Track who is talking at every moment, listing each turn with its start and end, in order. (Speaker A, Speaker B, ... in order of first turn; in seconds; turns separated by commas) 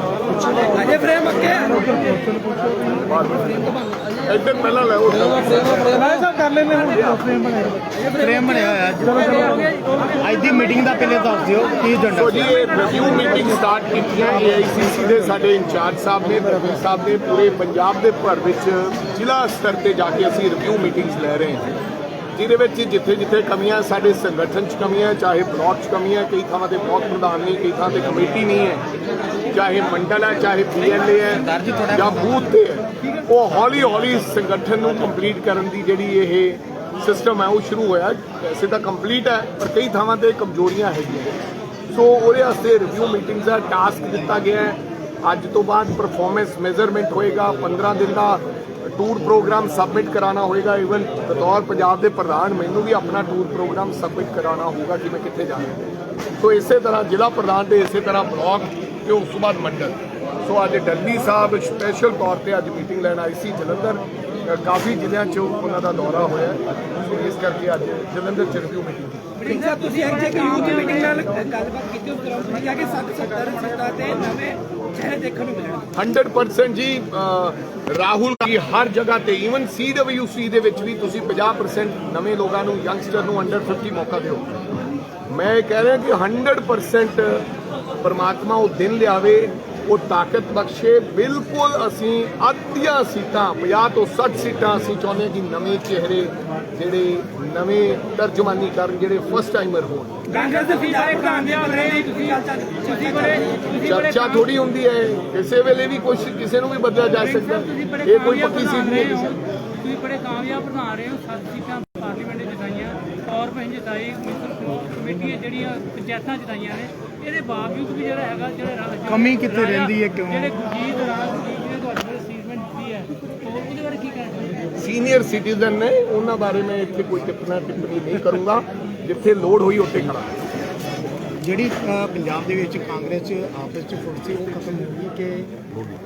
Speaker A: 0.3-1.4, Speaker B: 0.9-1.4, Speaker C: 1.4-2.8, Speaker D: 2.9-3.6, Speaker D: 4.2-6.0, Speaker C: 5.8-7.8, Speaker A: 8.1-9.3, Speaker C: 9.1-10.2, Speaker A: 10.2-13.1, Speaker D: 12.1-21.6, Speaker D: 22.4-28.8, Speaker D: 29.5-41.4, Speaker A: 31.5-32.4, Speaker D: 41.9-55.8, Speaker D: 56.4-69.2, Speaker B: 69.4-75.8, Speaker E: 69.4-71.4, Speaker D: 75.9-84.5, Speaker D: 85.3-87.5, Speaker D: 88.0-100.2, Speaker E: 100.3-104.4, Speaker B: 100.3-103.8, Speaker D: 103.7-109.4, Speaker E: 107.3-124.7, Speaker A: 119.0-120.6, Speaker D: 124.7-130.6, Speaker A: 131.4-135.6